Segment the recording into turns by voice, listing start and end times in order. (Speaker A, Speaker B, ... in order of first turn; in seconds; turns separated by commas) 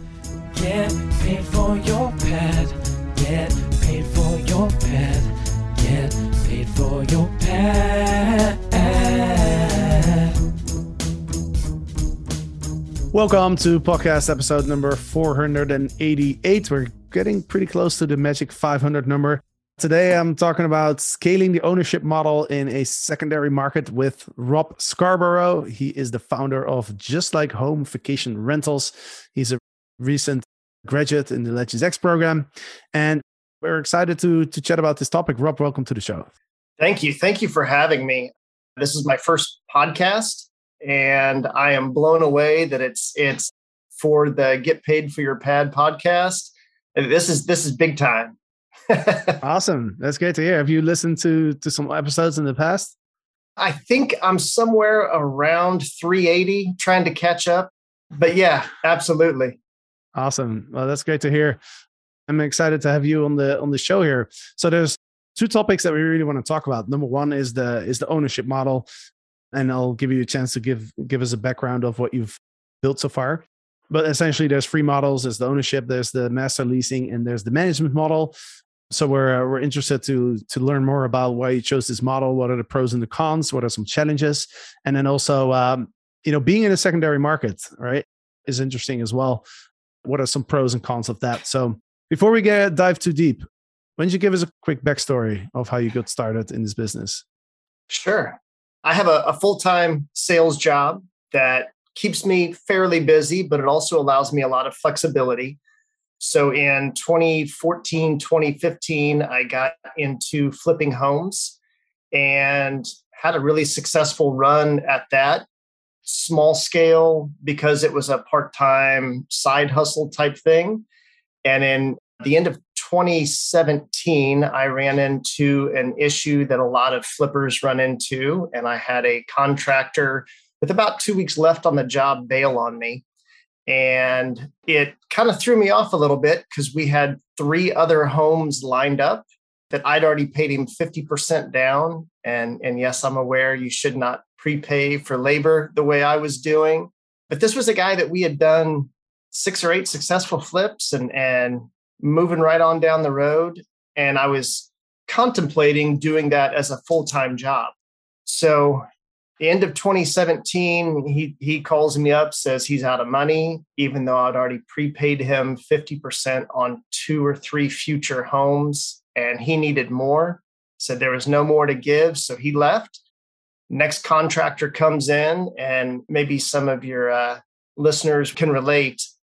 Speaker A: 0.5-10.3, Speaker B: 13.1-36.3, Speaker C: 36.8-48.4, Speaker C: 48.9-49.4, Speaker B: 49.4-52.9, Speaker C: 53.6-59.6, Speaker B: 60.1-61.6, Speaker B: 62.3-68.9, Speaker B: 69.5-78.3, Speaker B: 78.9-89.5, Speaker B: 90.0-93.5, Speaker B: 94.0-97.2, Speaker C: 97.9-105.6, Speaker C: 106.2-111.6, Speaker C: 112.1-115.5, Speaker C: 116.1-120.8, Speaker C: 121.5-133.0, Speaker C: 133.7-157.7, Speaker C: 158.2-158.8, Speaker C: 159.4-173.0, Speaker C: 173.7-179.1